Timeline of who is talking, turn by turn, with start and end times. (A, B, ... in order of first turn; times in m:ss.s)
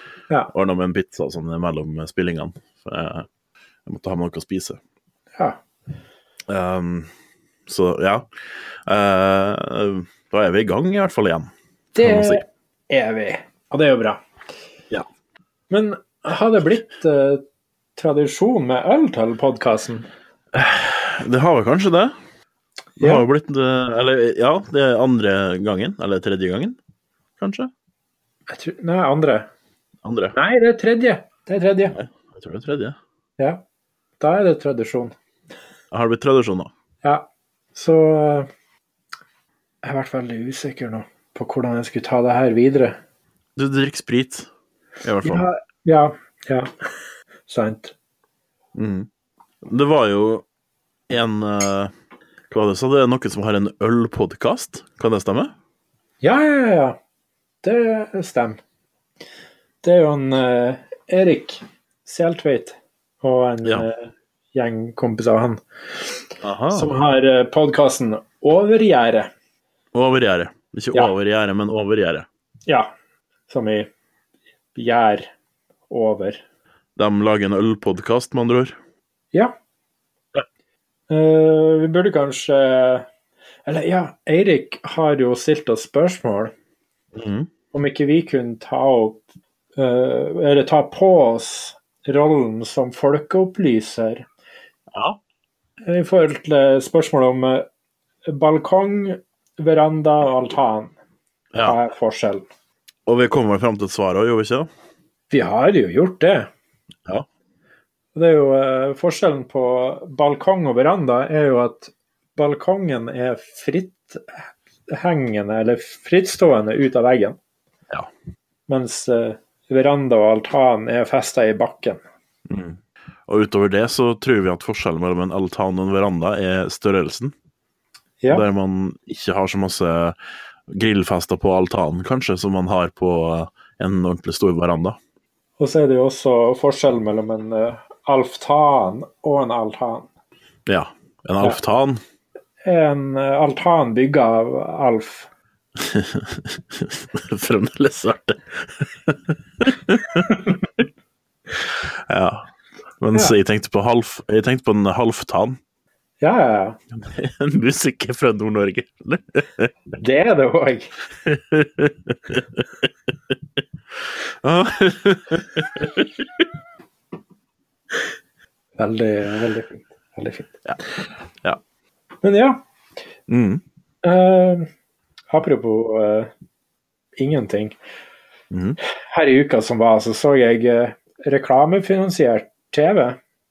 0:00.5-0:03.3 A
0:03.9-0:04.8 A
0:06.5-0:07.1 A
0:07.7-0:08.3 A
0:08.9-0:11.5 A
0:11.9-0:14.2 B
0:12.0-0:12.4 A
0:15.7-0:17.4 B
0:18.0-0:20.1 B
0:20.5-0:22.1 A
0:23.0-0:23.3 B
0:23.0-0:26.8 A
0:27.4-0:27.7 A
0:28.5-0:29.5 B
0:30.0-0:30.4 A
0:30.4-0:32.0 B
0:31.9-0:33.0 A
0:34.2-0:35.2 B
0:35.9-0:36.7 A
0:37.0-0:38.5 B
0:39.8-0:43.0 B
0:43.6-0:44.5 A
0:45.0-0:45.5 A
0:45.2-0:46.7 B
0:47.5-0:48.0 B
0:48.8-0:49.1 A
0:49.6-0:50.4 A
0:51.1-0:51.9 A
0:52.5-0:55.5 A
0:56.2-0:57.0 B
0:57.6-0:58.6 B
0:59.8-1:09.3 B
1:06.4-1:06.9 A
1:09.9-1:12.3 A
1:13.5-1:13.9 B
1:14.8-1:15.3 B
1:15.9-1:16.4 B
1:17.0-1:18.8 A
1:21.1-1:23.1 B
1:23.7-1:26.5 B
1:27.2-1:27.5 A
1:27.7-1:29.2 B
1:29.8-1:34.3 B
1:34.9-1:35.2 A
1:35.9-1:37.6 B
1:38.3-1:41.0 B
1:41.6-1:42.5 B
1:43.1-1:44.7 A
1:45.3-1:46.5 B
1:48.2-1:57.4 B
1:58.7-2:02.0 B
2:02.5-2:07.3 A
2:08.3-2:10.2 A
2:10.7-2:15.0 A
2:15.6-2:20.1 B
2:20.7-2:22.0 A
2:22.6-2:25.3 B
2:25.8-2:30.3 A
2:31.6-2:32.5 A
2:33.0-2:35.6 A
2:36.2-2:36.8 B
2:36.9-2:39.7 A
2:40.0-2:41.0 B
2:41.2-2:42.9 A
2:44.1-2:46.5 A
2:48.8-2:50.6 B
2:52.2-2:52.6 B
2:53.3-2:53.6 A
2:54.0-2:54.7 B
2:55.3-2:56.3 B
2:57.2-2:57.8 B
2:58.5-2:58.8 A
2:59.1-3:03.2 B